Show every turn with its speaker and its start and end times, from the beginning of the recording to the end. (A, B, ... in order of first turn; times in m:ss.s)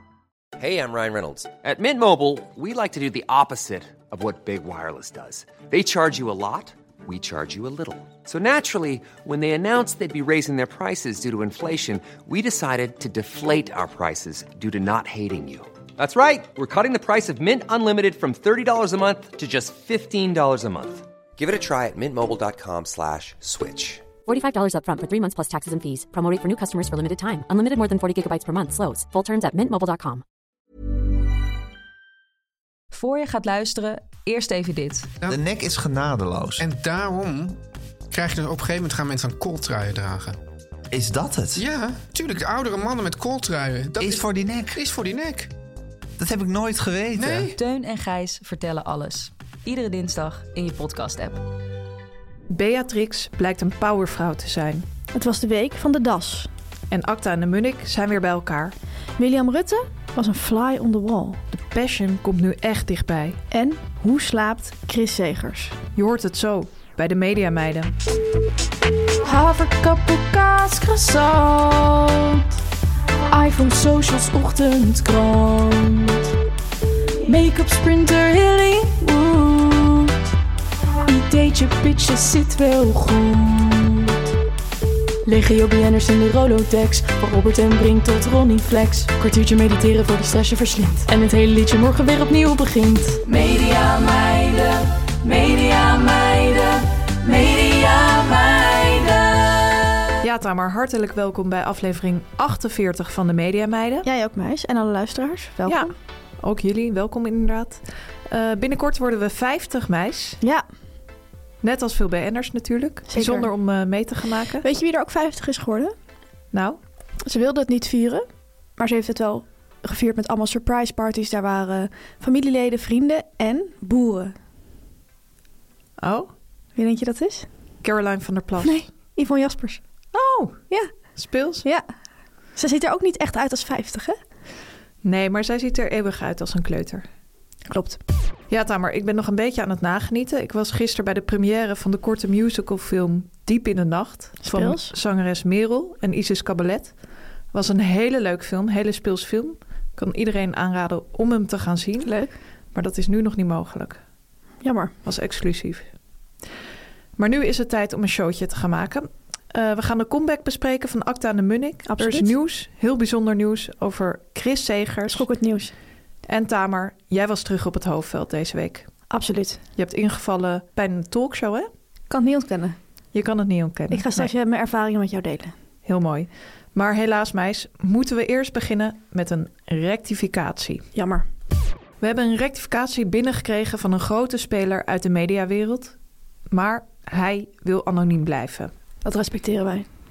0:00.6-0:24.0 A
0:24.2-0:30.2 B
0:32.9-0:35.1 C
0:35.3-0:36.6 D
0:36.6-0:37.6 E
0:38.1-0:40.4 E
0:40.9-0:41.6 D
0:41.6-0:45.5 E
0:44.0-0:44.8 D
0:46.2-0:47.5 D
0:47.1-0:47.6 E
0:47.5-0:51.4 C
0:52.5-0:54.8 F
0:55.1-0:56.5 G
0:56.9-0:58.7 F
0:59.2-1:01.4 G
1:01.5-1:03.4 F
1:03.5-1:05.8 G
1:06.0-1:07.9 F
1:09.2-1:12.4 H
1:13.3-1:16.2 H
1:17.2-1:20.2 H
1:21.0-1:24.2 H
1:25.2-1:39.7 H
1:40.2-1:44.0 F
1:44.0-1:45.9 G
1:46.4-1:50.4 F
1:51.6-1:54.6 F
1:53.1-1:53.5 G
1:54.6-1:55.9 G
1:56.5-1:56.8 F
1:57.2-1:58.2 G
1:58.8-2:04.3 G
2:06.0-2:06.3 F
2:06.8-2:07.5 G
2:07.8-2:08.8 F
2:08.6-2:09.8 G
2:10.1-2:10.6 F
2:11.2-2:11.6 F
2:12.6-2:14.2 G
2:15.0-2:17.0 F
2:17.7-2:18.0 G
2:18.5-2:26.9 F
2:24.4-2:24.9 G
2:27.5-2:32.1 F
2:32.0-2:32.3 G
2:32.7-2:34.0 F
2:34.6-2:34.9 G
2:35.0-2:35.9 F
2:37.2-2:45.2 F
2:41.8-2:42.3 G
2:45.1-2:45.7 G
2:46.3-2:48.9 F
2:49.1-2:49.6 G
2:49.8-2:51.7 F
2:52.1-2:52.8 G
2:53.1-2:54.3 F
2:53.9-2:55.5 G
2:55.8-3:00.9 F
3:00.9-3:01.2 G
3:02.0-3:06.0 F
3:06.5-3:08.7 F
3:09.0-3:09.9 G